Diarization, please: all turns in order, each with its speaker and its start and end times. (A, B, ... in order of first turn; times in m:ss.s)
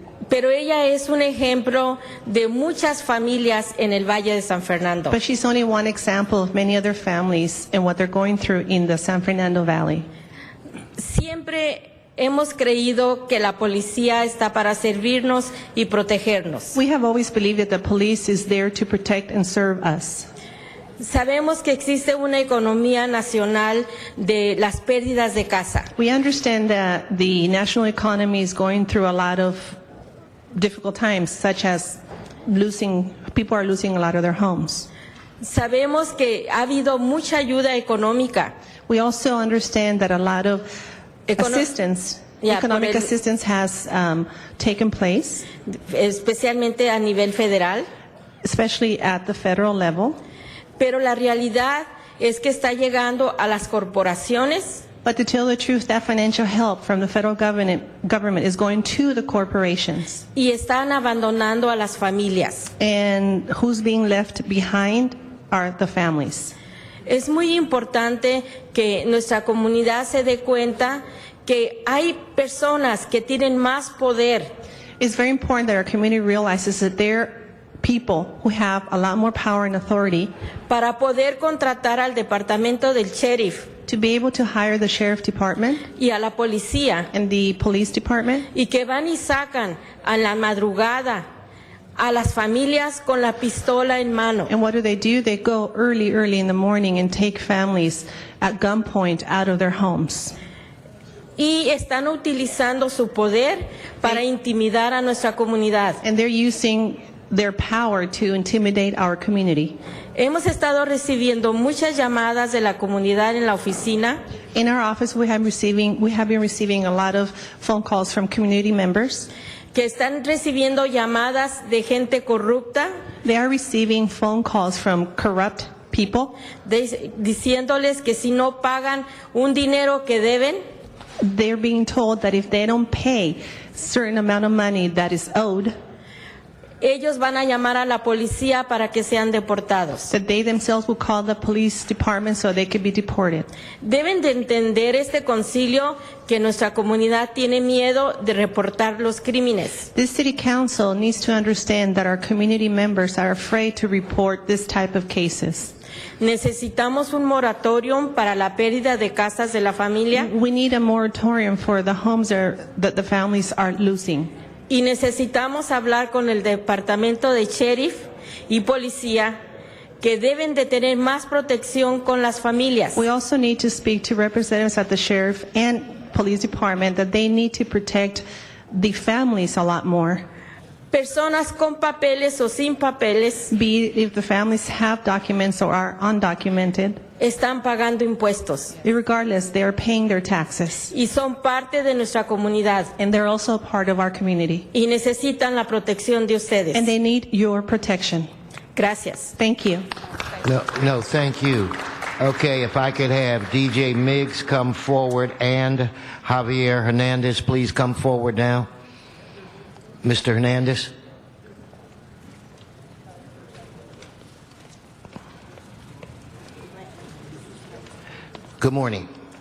0:00.3-0:05.2 A
0:05.1-0:10.1 B
0:11.0-0:16.8 A
0:16.8-0:20.3 B
0:21.0-0:25.9 A
0:26.0-0:29.8 B
0:30.5-0:34.9 B
0:35.4-0:38.5 A
0:38.9-0:40.7 B
0:41.3-0:41.7 A
0:41.4-0:45.4 B
0:42.4-0:43.1 A
0:45.7-0:47.9 A
0:48.4-0:50.2 B
0:50.8-0:54.8 A
0:55.0-1:00.2 B
1:00.4-1:02.7 A
1:02.8-1:06.6 B
1:07.1-1:14.5 A
1:15.0-1:20.3 B
1:20.7-1:23.7 A
1:23.9-1:25.8 B
1:26.0-1:27.1 A
1:27.1-1:28.5 B
1:28.5-1:31.3 A
1:32.0-1:34.5 A
1:34.5-1:40.4 B
1:41.4-1:46.0 A
1:46.0-1:49.8 B
1:50.2-1:54.2 A
1:54.6-1:59.3 B
1:59.7-2:02.9 A
2:03.2-2:06.4 B
2:06.6-2:10.6 A
2:11.2-2:15.8 B
2:16.8-2:20.1 A
2:20.1-2:23.5 B
2:23.8-2:29.9 A
2:29.9-2:35.7 B
2:36.2-2:40.3 A
2:40.2-2:44.3 B
2:44.7-2:49.4 A
2:50.0-2:53.0 A
2:53.0-3:00.2 B
3:00.9-3:03.5 A
3:03.5-3:07.0 B
3:07.2-3:08.7 A
3:08.8-3:10.9 B
3:10.9-3:12.9 A
3:13.0-3:14.7 B
3:14.7-3:16.9 A
3:16.7-3:18.3 B
3:18.8-3:19.4 A
3:19.4-3:19.8 B
3:20.4-3:28.7 C
3:30.0-3:30.9 C
3:38.6-3:39.1 C